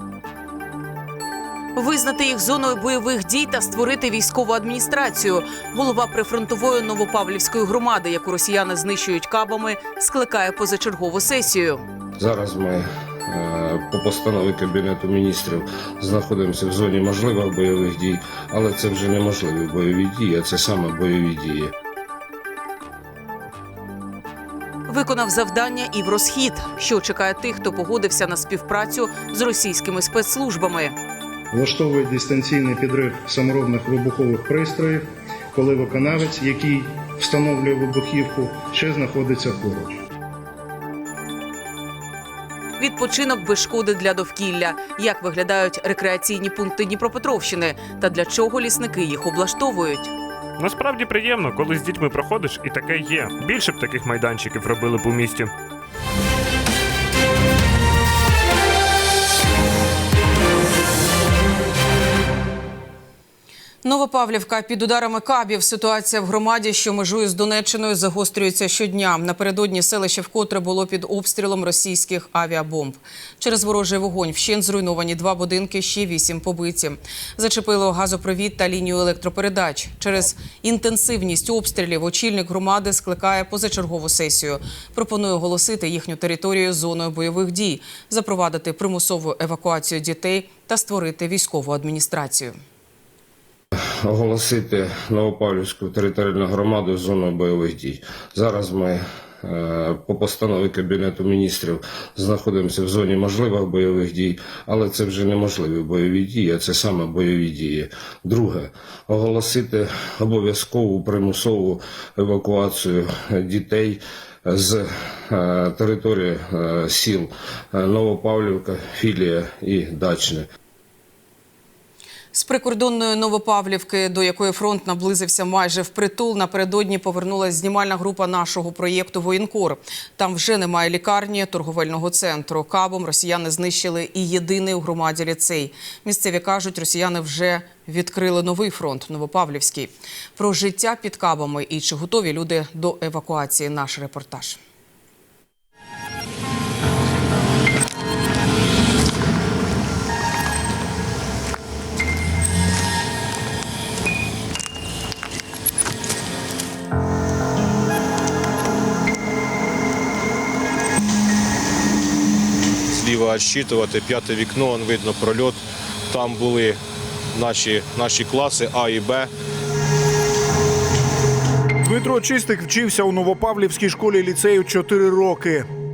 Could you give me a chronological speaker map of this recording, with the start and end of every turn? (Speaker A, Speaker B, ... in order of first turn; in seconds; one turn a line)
Speaker A: 1.8-11.8
Speaker B: 12.2-21.7
Speaker A: 24.9-30.9
Speaker C: 31.5-40.0
Speaker A: 42.8-50.1
Speaker D: 50.6-55.5
Speaker A: 63.8-92.5
Speaker B: 93.8-120.5
Speaker A: 122.3-144.6
Speaker E: 162.9-166.8
Speaker E: 167.3-169.3
Speaker F: 171.8-175.7